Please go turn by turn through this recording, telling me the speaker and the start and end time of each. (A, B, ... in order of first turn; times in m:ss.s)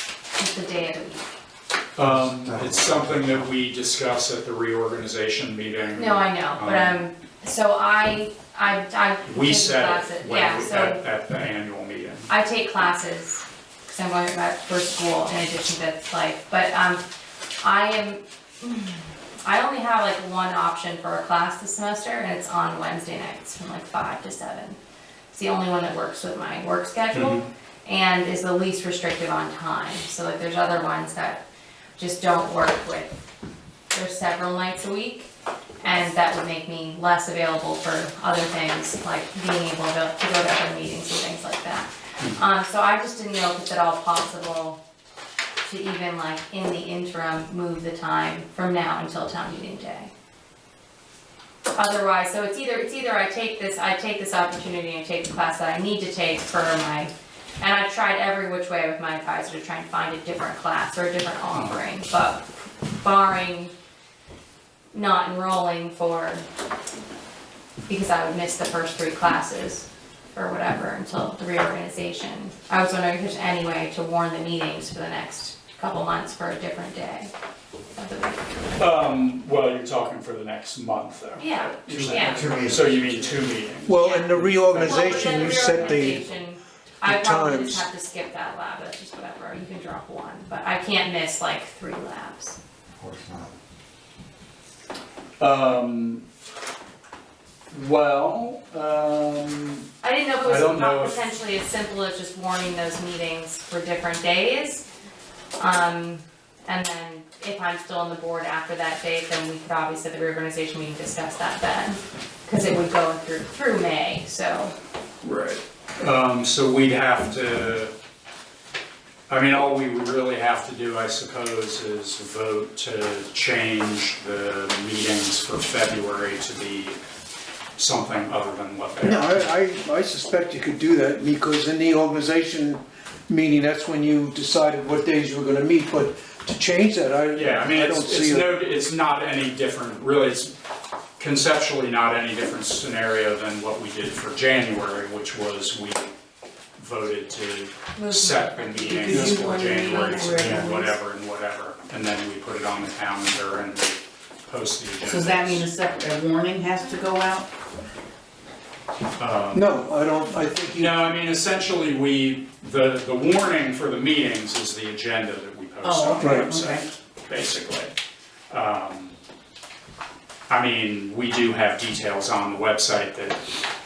0:00.4-0:01.3 A
0:02.0-0:07.0 B
0:02.1-0:03.4 C
0:05.9-0:11.0 A
0:09.3-0:12.3 B
0:12.3-0:17.0 A
0:17.6-0:24.8 A
0:25.3-0:31.4 A
0:27.1-0:27.4 B
0:32.0-0:33.1 A
0:33.9-0:35.3 A
0:35.8-0:44.8 A
0:45.6-0:50.1 A
0:51.7-1:03.7 A
1:01.5-1:01.8 B
1:04.9-1:06.4 A
1:07.9-1:17.3 A
1:18.0-1:18.7 A
1:18.8-1:24.0 B
1:21.4-1:22.5 A
1:21.9-1:23.3 C
1:23.8-1:26.2 D
1:24.0-1:32.6 A
1:24.7-1:26.1 B
1:27.0-1:27.9 D
1:33.0-1:33.5 C
1:35.4-1:36.2 B
1:37.7-1:39.9 B
1:40.0-1:44.8 A
1:40.4-1:41.3 B
1:45.6-1:54.7 A
1:56.0-1:57.9 B
1:59.3-2:07.0 B
2:07.8-2:09.4 B
2:09.0-2:18.5 D
2:17.3-2:20.5 B
2:21.2-2:26.1 B
2:26.8-2:35.9 B
2:27.9-2:30.6 A
2:29.0-2:31.0 E
2:35.0-2:37.5 E
2:39.2-2:39.7 B
2:39.5-2:41.0 D
2:40.7-2:47.9 B
2:45.8-2:46.9 E
2:46.2-2:46.5 D
2:48.5-2:49.1 B
2:50.5-2:53.4 B